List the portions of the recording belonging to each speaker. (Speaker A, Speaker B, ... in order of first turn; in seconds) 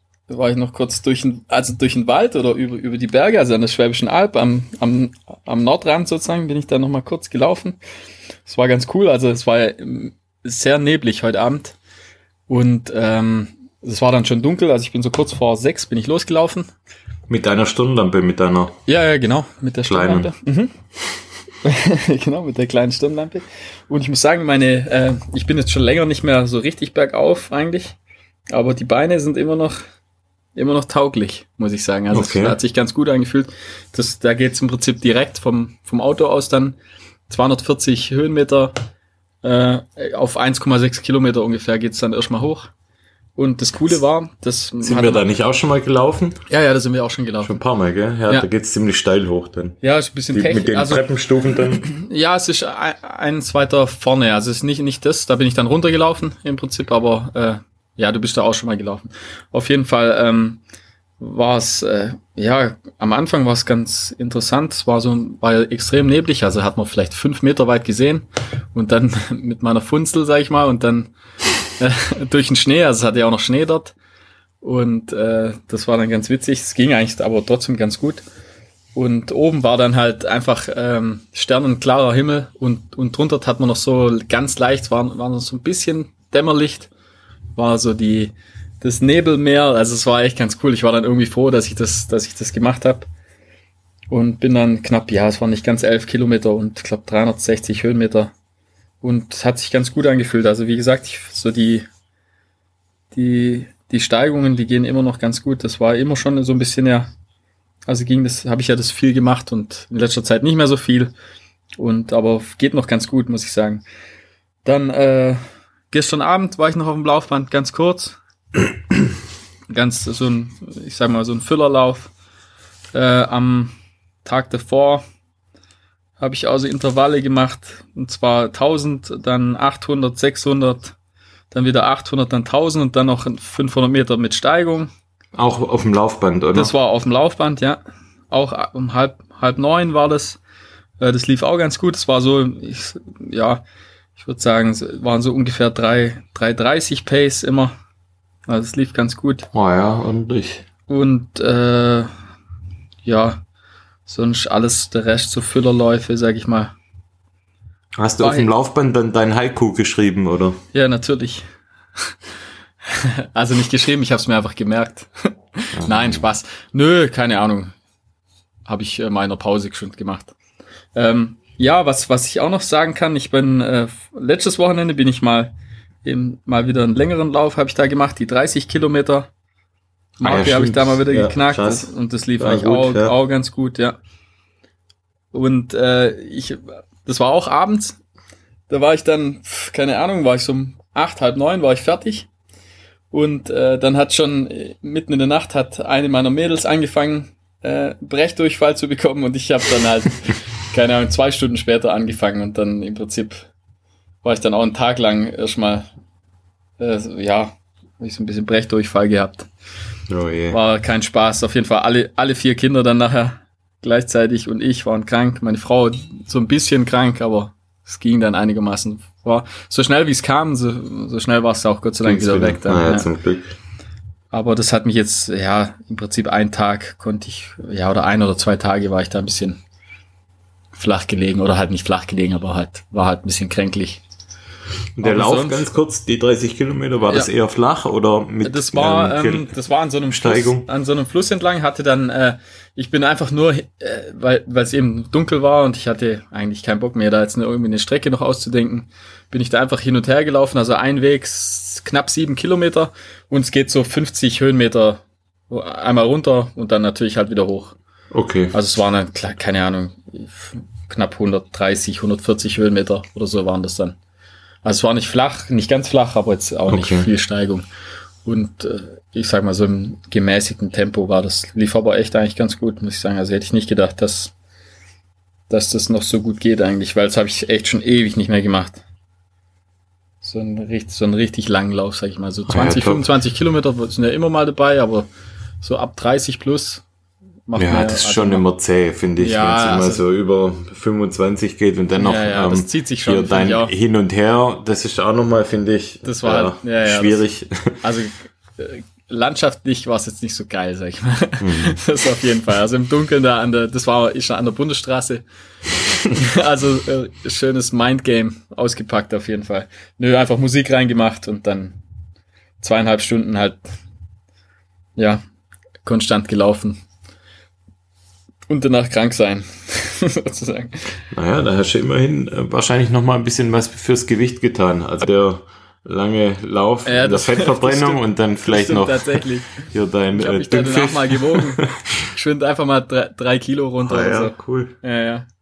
Speaker A: 0.3-7.8, 8.5-11.8, 12.5-16.7, 18.9-20.7, 21.6-28.0, 28.5-29.8, 30.6-36.8, 37.3-38.7, 39.4-42.7, 43.4-45.3, 46.5-47.6, 49.8-51.0, 51.8-60.6, 61.2-71.1, 71.8-74.0, 74.6-78.2, 79.0-86.9, 87.6-93.1, 94.1-98.3, 99.0-101.8, 103.1-107.1, 107.9-111.1, 111.8-113.8, 114.7-115.4, 115.9-118.2, 119.7-122.1, 122.9-125.0, 126.2-130.9, 131.5-134.9, 136.5-137.8, 138.3-140.4, 141.0-143.6, 144.2-147.7, 148.5-149.5, 150.9-152.1, 153.0-153.4, 154.1-156.7, 158.2-158.5, 160.7-161.4, 162.9-167.7, 168.7-170.3, 170.9-175.5, 176.1-179.3, 180.2-184.0, 185.3-188.0, 188.7-192.3, 193.1-203.5, 204.2-205.9, 206.8-209.5, 210.5-223.1, 224.3-229.6, 230.8-234.0, 235.0-235.7, 238.4-257.8, 258.5-264.0, 264.6-267.6, 268.2-274.3, 275.5-278.8, 280.2-285.1, 285.6-286.8, 287.5-288.4, 289.2-290.0, 292.0-293.7, 296.0-297.2, 297.8-305.2, 306.0-311.8, 312.6-313.6, 315.0-315.2, 315.8-316.8, 318.5-320.9, 326.9-335.3
Speaker B: 17.3-18.8, 19.9-20.3, 32.1-32.6, 44.8-46.4, 47.4-49.8, 50.3-51.9, 135.3-136.7, 149.5-150.7, 158.0-160.6, 165.8-166.2, 180.2-183.2, 210.1-210.6, 222.0-223.5, 235.0-239.5, 240.1-240.7, 258.1-258.5, 266.7-267.1, 282.5-283.1, 287.6-297.8, 301.4-301.8, 321.1-332.1, 333.8-334.8